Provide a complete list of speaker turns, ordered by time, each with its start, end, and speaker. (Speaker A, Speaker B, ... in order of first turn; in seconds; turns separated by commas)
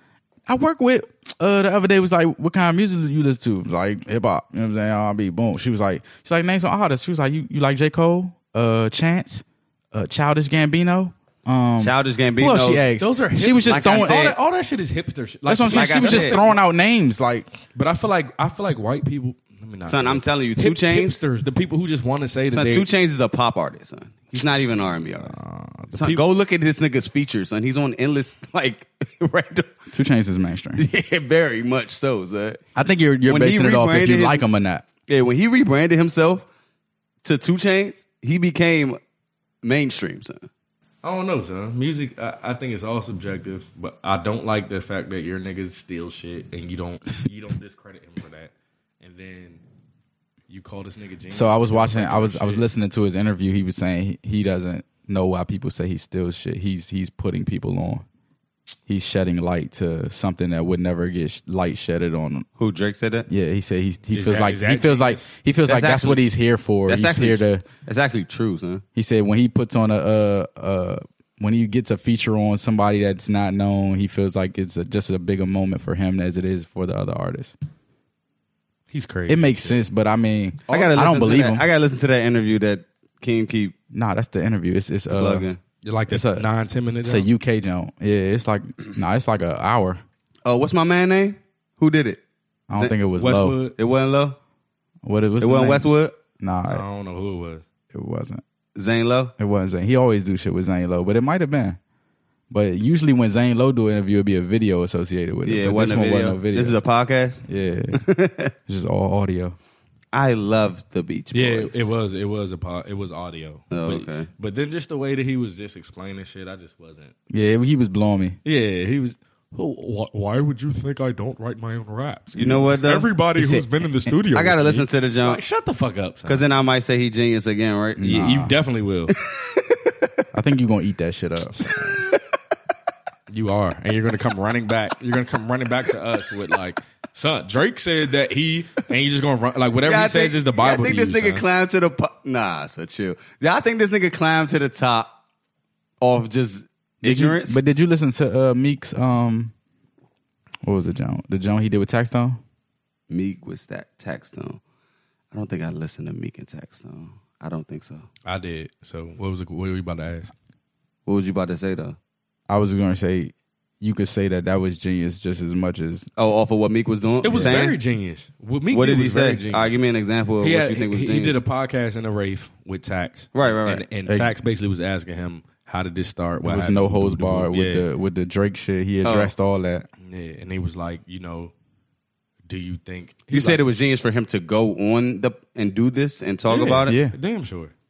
Speaker A: 0.5-14.3, Speaker B: 11.8-12.9, Speaker C: 13.0-16.6, Speaker B: 13.7-14.4, Speaker A: 15.5-17.5, Speaker B: 15.7-16.4, Speaker C: 17.7-22.9, Speaker B: 19.9-21.2, Speaker B: 22.5-25.4, Speaker C: 25.2-26.2, Speaker B: 25.9-29.8, Speaker A: 29.9-30.9, Speaker B: 30.8-32.6, Speaker A: 32.8-34.9, Speaker B: 33.3-34.5, Speaker B: 35.1-36.5, Speaker B: 37.2-39.0, Speaker B: 39.6-40.5, Speaker C: 41.0-49.6, Speaker C: 50.5-52.7, Speaker A: 51.3-58.0, Speaker A: 58.9-62.5, Speaker B: 62.6-63.3, Speaker A: 63.3-67.7, Speaker C: 64.1-65.3, Speaker B: 65.7-66.2, Speaker B: 66.9-68.8, Speaker A: 69.0-77.6, Speaker C: 78.9-79.8, Speaker A: 79.3-81.6, Speaker B: 80.7-83.8, Speaker A: 83.9-85.5, Speaker B: 85.1-85.6, Speaker C: 85.8-87.3, Speaker A: 86.1-86.5, Speaker A: 87.0-90.0, Speaker B: 90.5-92.2, Speaker A: 92.7-93.6, Speaker C: 93.2-93.8, Speaker B: 93.8-94.4, Speaker A: 95.0-95.9, Speaker B: 95.4-96.2, Speaker A: 96.4-96.8, Speaker C: 96.7-97.6, Speaker A: 97.9-98.4, Speaker B: 98.8-99.3, Speaker A: 99.4-101.8, Speaker A: 102.5-106.8, Speaker B: 105.5-108.5, Speaker A: 107.5-108.0, Speaker A: 108.7-109.6, Speaker B: 110.1-111.9, Speaker C: 111.3-117.1, Speaker B: 113.7-114.3, Speaker A: 117.3-118.4, Speaker C: 118.4-126.5, Speaker B: 122.3-123.1, Speaker A: 123.3-124.1, Speaker B: 124.3-125.4, Speaker B: 126.3-128.1, Speaker A: 128.0-128.6, Speaker C: 128.0-129.2, Speaker B: 129.2-130.1, Speaker A: 130.3-132.0, Speaker C: 133.3-141.4, Speaker B: 139.8-145.1, Speaker B: 146.0-147.6, Speaker A: 147.0-149.5, Speaker A: 150.6-152.4, Speaker B: 153.1-154.6, Speaker B: 155.3-158.1, Speaker C: 158.2-160.3, Speaker B: 161.1-162.0, Speaker A: 162.5-166.1, Speaker B: 166.2-167.8, Speaker C: 167.2-169.8, Speaker A: 167.3-167.6, Speaker B: 168.7-171.4, Speaker C: 170.4-177.9, Speaker B: 173.3-173.8, Speaker A: 174.1-174.3, Speaker A: 176.4-179.9, Speaker B: 179.0-179.3, Speaker C: 180.0-181.5, Speaker C: 182.5-183.6, Speaker B: 183.3-187.0, Speaker C: 186.5-187.7, Speaker A: 186.8-187.2